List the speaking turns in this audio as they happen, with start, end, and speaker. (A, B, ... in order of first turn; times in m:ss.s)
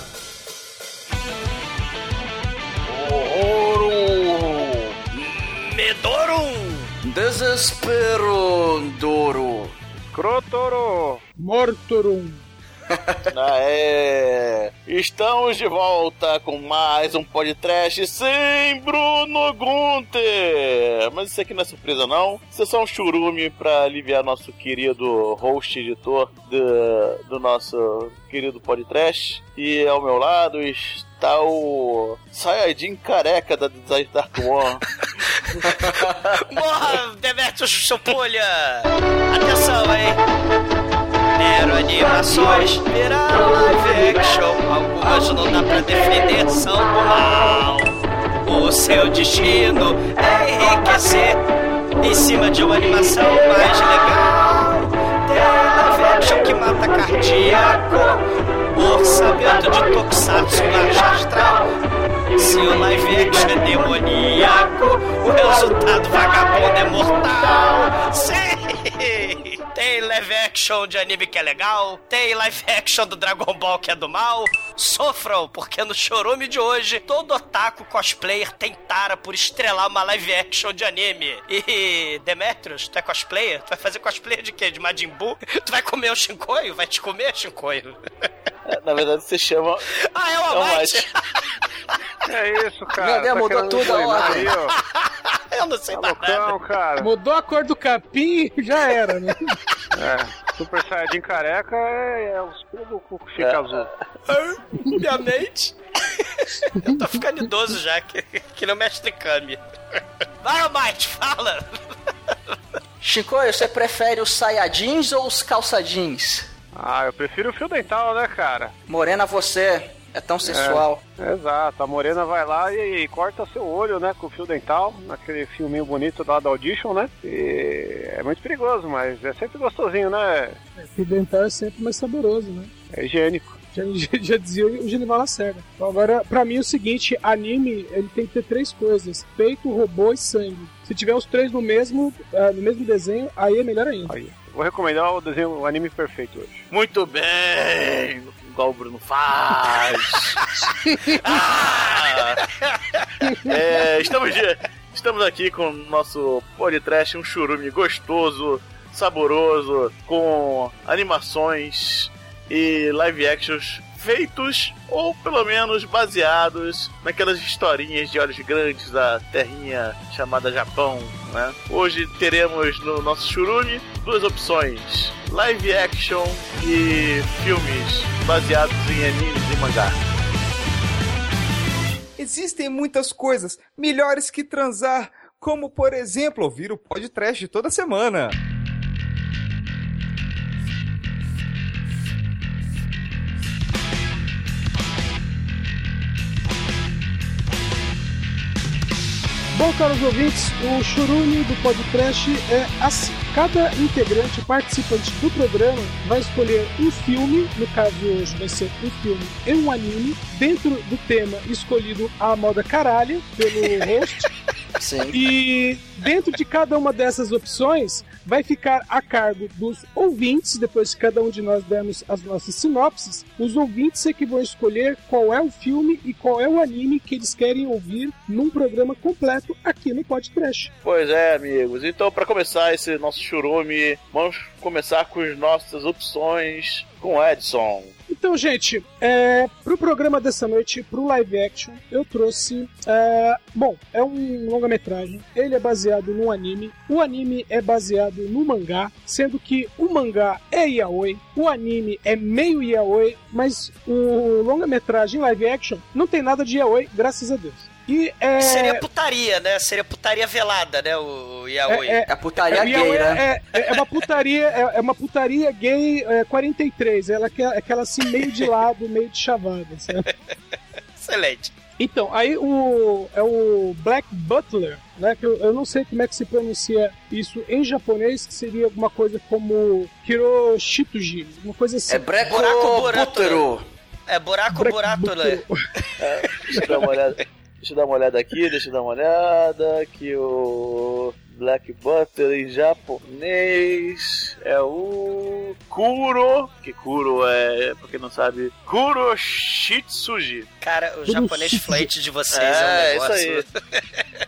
0:02.9-0:04.8 A
0:05.1-0:06.9 B
0:07.0-0:09.7 A
0:10.0-0:11.2 C
0:11.4-0:12.4 D
0:12.9-0:13.3 A
0:13.3-0:34.8 E
0:35.0-0:40.2 B
0:35.7-0:36.1 A
0:41.4-0:47.9 B
0:48.4-0:51.4 B
0:52.0-0:58.2 B
0:58.7-1:01.6 B
1:02.3-1:28.0 B
1:28.7-1:29.9 E
1:30.0-1:31.2 B
1:30.5-1:31.1 E
1:32.3-1:34.8 C
1:33.0-1:34.5 A
1:34.9-1:36.5 B
1:35.9-1:37.1 C
1:37.0-1:39.6 D
1:39.9-1:43.9 C
1:43.4-1:44.0 E
1:44.3-1:49.6 B
1:50.4-1:51.6 B
1:53.0-1:56.5 A
1:56.7-1:58.7 C
1:58.9-2:01.0 A
2:00.4-2:10.6 C
2:10.8-2:12.7 D
2:12.9-2:13.6 C
2:13.7-2:24.1 D
2:24.1-2:26.6 C
2:26.7-2:30.5 E
2:30.1-2:33.4 B
2:31.2-2:32.4 E
2:33.4-3:00.0 E
3:02.2-3:08.4 F
3:19.5-3:34.3 D
3:34.8-3:35.2 A
3:35.1-3:50.7 D
3:50.8-3:57.9 E
3:58.1-4:18.8 D
4:18.4-4:22.0 B
4:21.7-4:30.1 D
4:22.1-4:23.2 A
4:31.0-4:31.5 B
4:31.8-4:42.1 D
4:41.9-4:43.6 A
4:42.2-4:43.5 B
4:44.1-4:45.4 B
4:44.5-4:45.5 D
4:46.0-5:00.5 E
5:00.6-5:04.0 B
5:01.0-5:01.9 D
5:02.3-5:03.4 E